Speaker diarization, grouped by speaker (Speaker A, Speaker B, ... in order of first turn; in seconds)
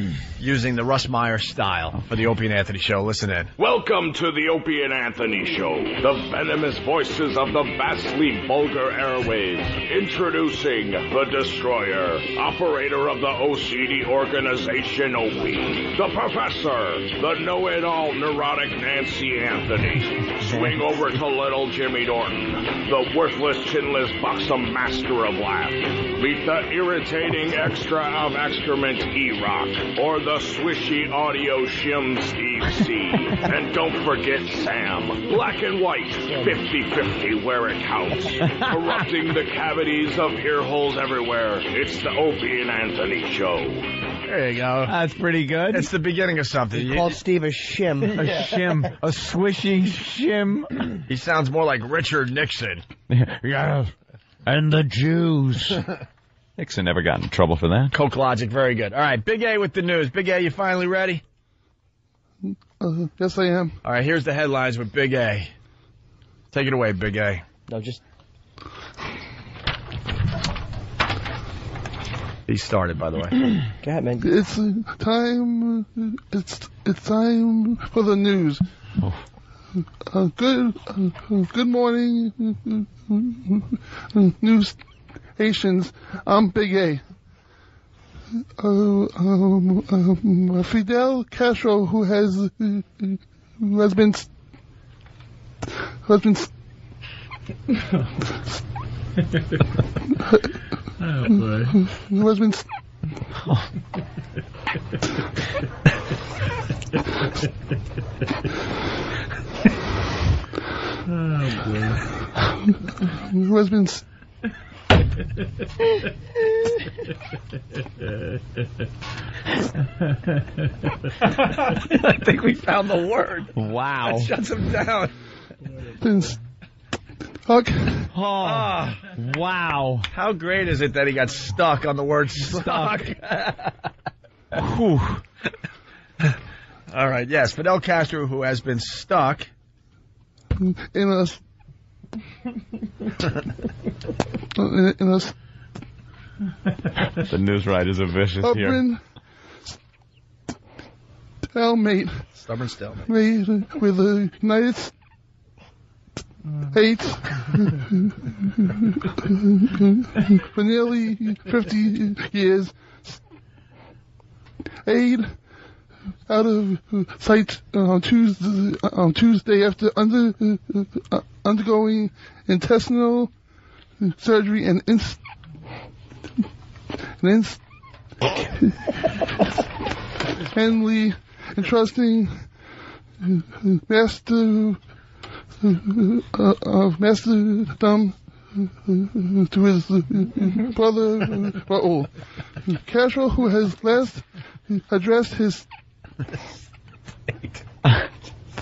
Speaker A: 0.4-3.5, 44.2-44.9, 45.7-47.1, 51.1-52.8, 57.9-61.2, 63.8-65.5, 66.5-67.4, 72.5-73.4, 121.7-123.5, 124.0-125.1, 128.4-129.0, 130.1-133.7, 136.9-139.5, 152.3-153.1
Speaker B: 3.6-43.9
Speaker C: 38.6-38.9, 44.9-45.9, 48.1-50.7, 53.1-53.9, 54.4-55.8, 56.6-57.9, 123.5-124.3, 128.1-130.1, 132.4-133.1, 134.5-135.2, 147.2-148.8
Speaker D: 46.7-48.3, 67.7-68.0, 73.8-74.3
Speaker E: 62.4-63.8, 74.2-78.6, 80.0-84.8, 85.3-87.0, 88.6-94.3, 96.0-96.5, 101.7-102.6, 113.0-114.0, 126.0-126.3, 127.5-128.1, 140.6-141.4, 144.5-145.3, 148.4-149.0, 151.5-152.2, 153.1-154.9, 156.7-163.2, 164.8-165.4, 166.3-173.3, 174.0-175.2, 177.2-177.6, 180.5-182.5, 183.2-184.8, 185.6-192.1, 192.7-195.7